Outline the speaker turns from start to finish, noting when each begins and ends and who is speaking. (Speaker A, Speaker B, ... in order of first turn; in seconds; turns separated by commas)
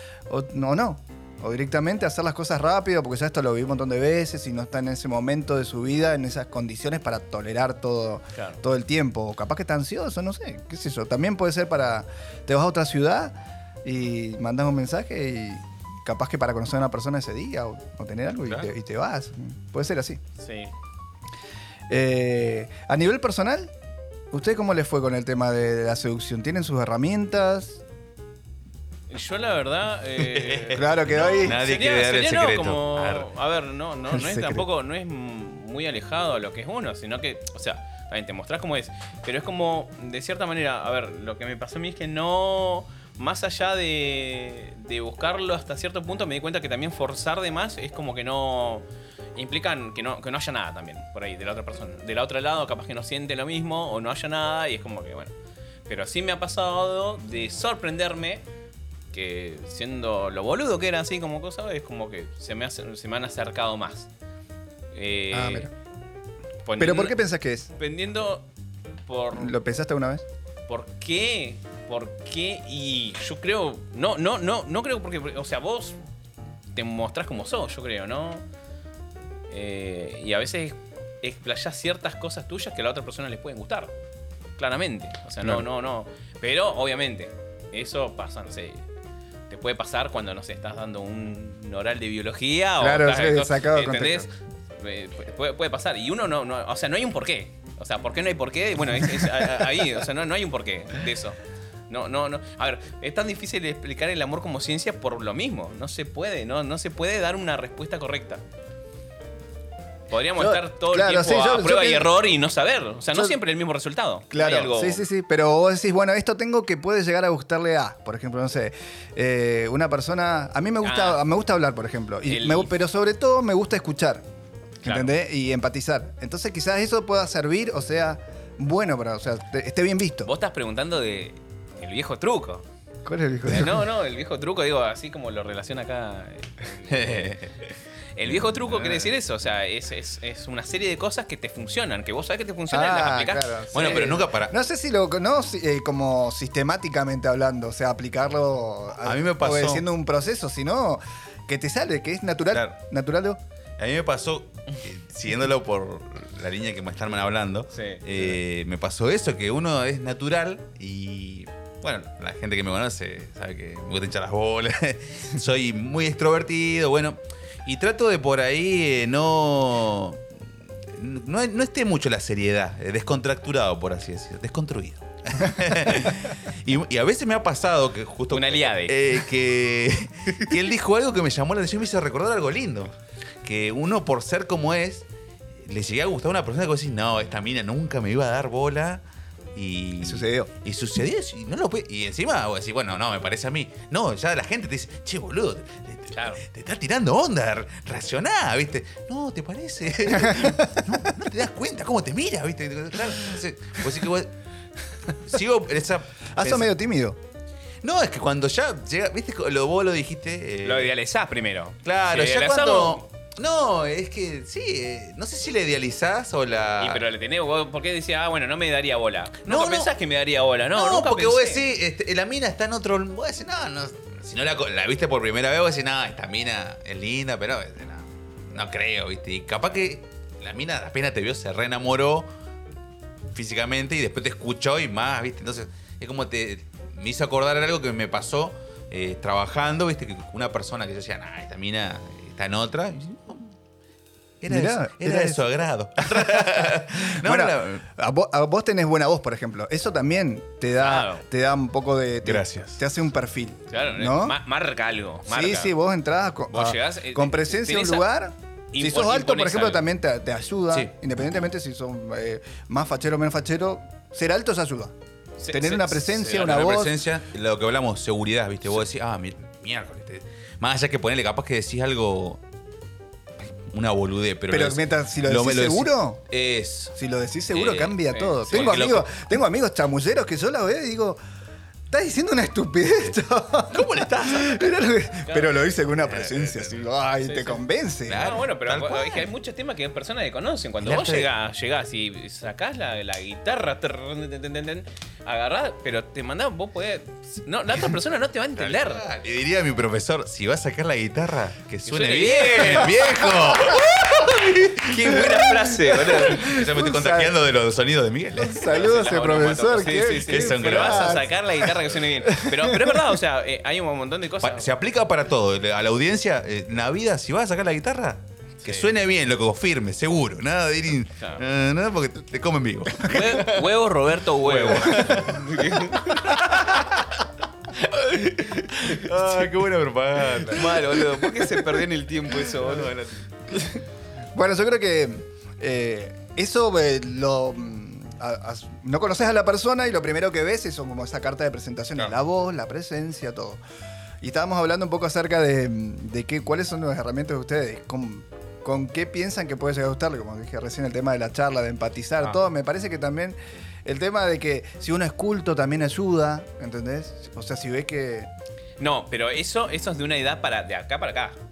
Speaker A: 0.3-20.2, Speaker B: 8.3-8.6, Speaker B: 20.4-20.7, Speaker A: 21.9-23.7, Speaker A: 24.3-27.8, Speaker B: 29.1-48.9, Speaker C: 30.2-33.3, Speaker A: 30.7-31.6, Speaker A: 34.1-34.7, Speaker B: 49.4-55.3, Speaker B: 55.9-58.4, Speaker B: 59.1-64.1, Speaker B: 64.9-65.7, Speaker A: 65.3-65.7, Speaker B: 66.7-67.2, Speaker A: 66.8-67.7, Speaker B: 67.8-68.5, Speaker B: 69.1-69.5, Speaker A: 69.3-70.2, Speaker B: 70.7-76.0, Speaker B: 76.8-78.4, Speaker B: 79.5-83.9, Speaker B: 84.6-88.8, Speaker B: 89.5-101.4, Speaker A: 92.8-94.3, Speaker B: 101.9-108.4, Speaker B: 110.1-115.1, Speaker A: 110.4-112.1, Speaker A: 114.3-124.2, Speaker B: 120.8-121.2, Speaker B: 122.3-122.7, Speaker A: 124.8-130.3, Speaker B: 124.8-125.2, Speaker B: 130.2-132.7, Speaker A: 133.1-133.9, Speaker B: 133.5-137.4, Speaker C: 136.9-137.6, Speaker B: 138.2-143.8, Speaker C: 138.2-139.1, Speaker A: 142.7-153.4, Speaker C: 143.7-144.6, Speaker C: 149.0-149.9, Speaker C: 153.8-170.3, Speaker B: 157.7-158.3, Speaker C: 170.9-185.1, Speaker B: 178.3-179.0, Speaker C: 185.6-189.0, Speaker C: 189.6-204.3, Speaker A: 190.0-190.5, Speaker B: 196.1-196.4, Speaker A: 200.3-200.5, Speaker C: 205.2-206.7, Speaker A: 206.3-207.2, Speaker C: 207.8-210.9, Speaker B: 210.6-213.0, Speaker C: 211.8-217.1, Speaker B: 216.8-221.7, Speaker C: 219.4-219.9, Speaker C: 220.7-232.3, Speaker C: 233.3-243.6, Speaker C: 244.4-247.8, Speaker A: 244.5-245.4, Speaker A: 246.1-254.4, Speaker B: 250.8-251.2, Speaker C: 252.2-252.8, Speaker B: 253.7-255.7, Speaker A: 255.3-264.9, Speaker B: 256.5-258.1, Speaker B: 258.7-259.9, Speaker B: 265.4-266.5, Speaker A: 265.5-267.0, Speaker C: 266.2-272.4, Speaker C: 273.4-276.9, Speaker A: 274.5-276.2, Speaker A: 276.9-281.2, Speaker C: 277.5-277.9, Speaker B: 277.9-278.9, Speaker C: 278.5-279.1, Speaker A: 281.9-288.3, Speaker C: 283.7-284.7, Speaker B: 285.2-285.5, Speaker C: 286.1-286.8, Speaker B: 287.2-287.6, Speaker C: 288.1-289.3, Speaker B: 288.2-299.1, Speaker C: 290.8-291.3, Speaker C: 298.6-308.8, Speaker B: 301.9-303.6, Speaker B: 304.8-306.6, Speaker A: 305.1-307.3, Speaker A: 308.4-311.7, Speaker B: 308.6-314.7, Speaker C: 310.2-311.3, Speaker A: 312.2-313.1, Speaker C: 314.4-323.6, Speaker B: 318.6-318.9, Speaker B: 323.1-326.4, Speaker C: 324.3-327.2, Speaker B: 327.9-329.1, Speaker C: 328.1-330.9, Speaker B: 330.5-332.9, Speaker C: 332.6-333.1, Speaker A: 334.4-343.6, Speaker A: 344.2-358.3, Speaker B: 358.8-361.4